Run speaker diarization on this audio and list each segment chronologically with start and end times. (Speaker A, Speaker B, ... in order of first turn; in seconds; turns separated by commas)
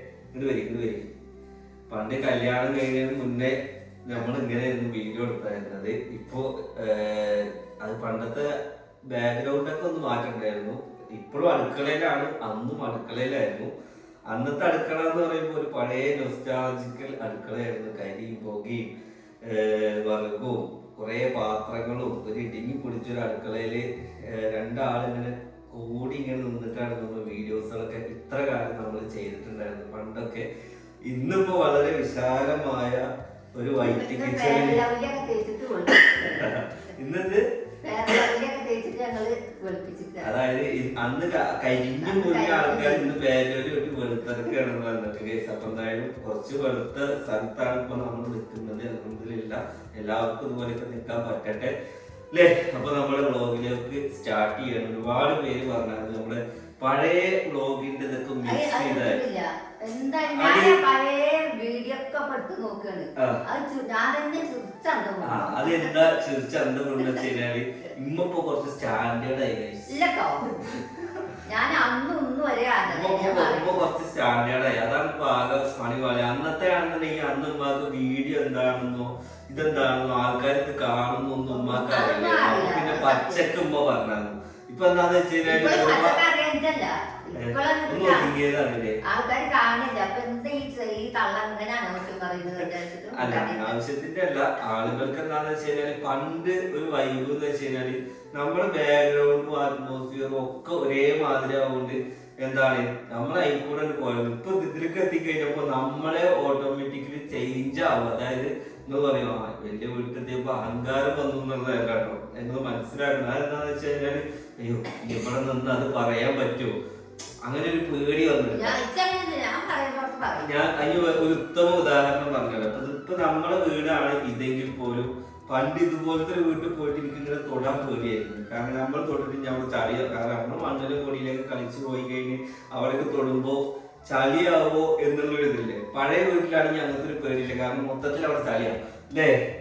Speaker A: 0.3-1.1, Speaker A: 1.9-8.5, Speaker A: 9.1-13.7, Speaker A: 14.3-18.9, Speaker A: 19.4-30.4, Speaker A: 31.1-34.8, Speaker B: 33.8-36.5, Speaker A: 36.2-37.4, Speaker B: 37.8-40.3, Speaker A: 40.2-51.7, Speaker B: 42.0-43.1, Speaker A: 52.3-59.2, Speaker B: 58.4-66.0, Speaker A: 60.3-60.8, Speaker A: 63.1-63.4, Speaker A: 65.2-69.9, Speaker B: 67.0-67.9, Speaker B: 69.9-70.5, Speaker A: 70.4-71.0, Speaker B: 71.5-73.8, Speaker A: 72.9-86.2, Speaker B: 81.5-83.5, Speaker B: 85.4-88.3, Speaker A: 87.4-89.0, Speaker B: 89.0-93.7, Speaker A: 93.1-116.7, Speaker A: 117.4-118.8, Speaker B: 118.5-120.5, Speaker A: 120.4-139.3